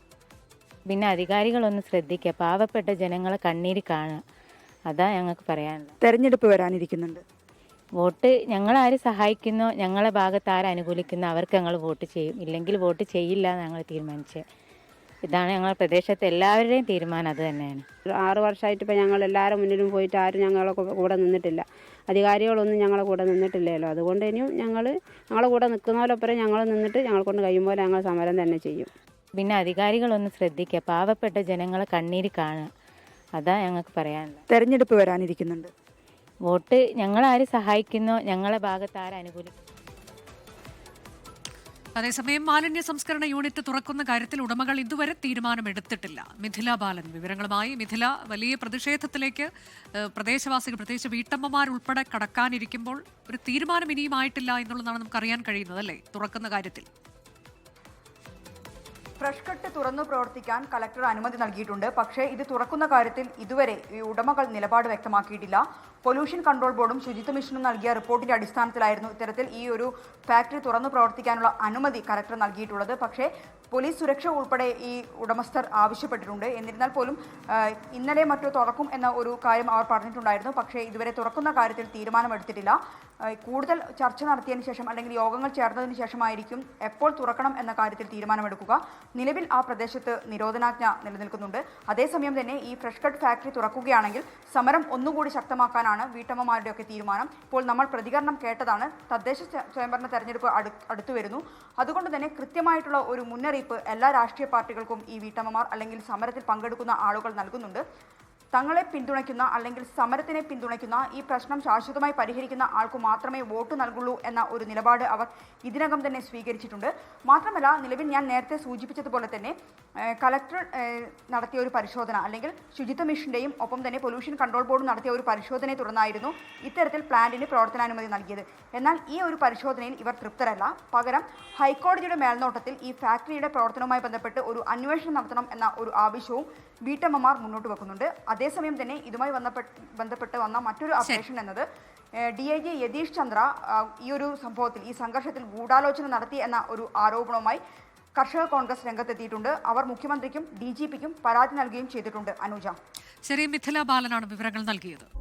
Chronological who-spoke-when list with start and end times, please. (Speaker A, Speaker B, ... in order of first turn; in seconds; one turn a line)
Speaker A: 0.9-4.2
Speaker A: 4.9-5.9
Speaker B: 6.0-7.2
Speaker A: 8.0-14.4
Speaker A: 15.3-17.8
Speaker C: 18.2-28.9
Speaker A: 29.4-32.7
Speaker A: 33.4-34.4
Speaker B: 34.5-35.7
Speaker A: 36.5-39.5
Speaker D: 42.0-56.9
Speaker B: 59.2-82.8
Speaker B: 83.3-107.8
Speaker B: 108.5-119.5
Speaker B: 120.1-141.6
Speaker B: 142.2-147.6
Speaker B: 148.2-152.8
Speaker D: 153.2-155.1